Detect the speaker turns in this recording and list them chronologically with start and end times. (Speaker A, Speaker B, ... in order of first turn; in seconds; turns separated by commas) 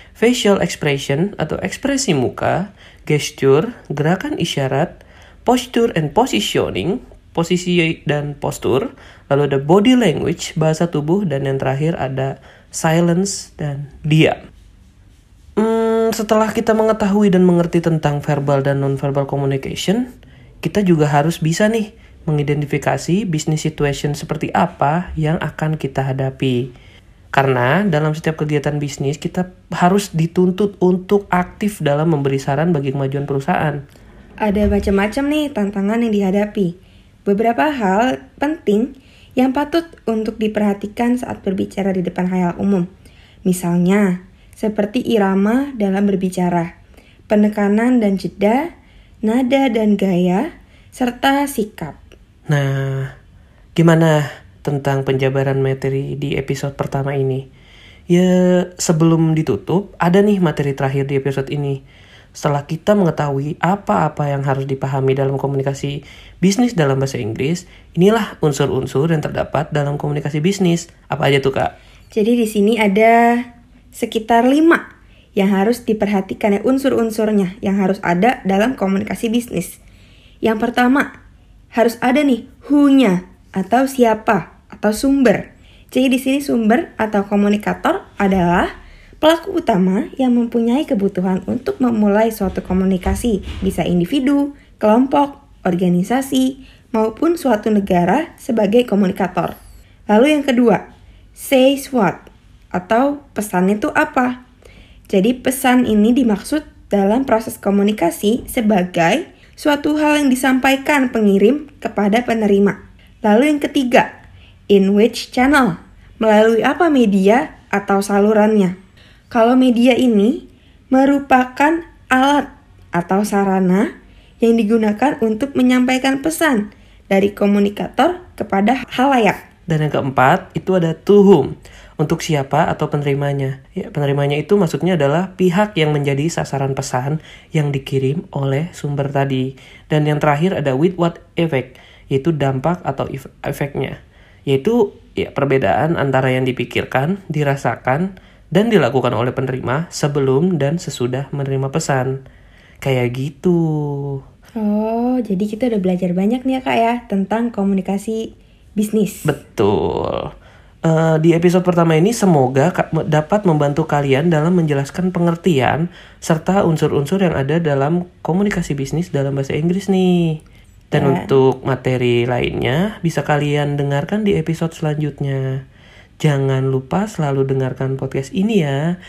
Speaker A: 0.2-14.4, Speaker A: 15.6-20.0, Speaker A: 20.6-26.7, Speaker A: 27.3-33.8, Speaker B: 34.4-36.7, Speaker B: 37.2-42.9, Speaker B: 43.4-46.7, Speaker B: 47.3-48.7, Speaker B: 49.2-52.0, Speaker A: 52.5-53.1, Speaker A: 53.8-57.5, Speaker A: 58.1-61.8, Speaker A: 62.4-71.7, Speaker B: 72.1-73.4, Speaker B: 73.9-74.8, Speaker B: 75.3-79.8, Speaker B: 80.4-81.1, Speaker B: 81.7-88.7, Speaker B: 89.2-99.5, Speaker B: 100.1-100.8, Speaker B: 101.4-104.3, Speaker B: 105.1-114.1, Speaker B: 114.7-118.7, Speaker B: 119.3-120.4, Speaker B: 120.9-123.9, Speaker B: 124.4-129.4, Speaker A: 129.7-143.9, Speaker A: 144.5-152.1, Speaker A: 152.8-154.2, Speaker B: 154.6-159.3, Speaker A: 159.2-160.3, Speaker A: 160.8-170.3, Speaker A: 170.9-175.6, Speaker B: 170.9-171.3, Speaker A: 176.2-178.8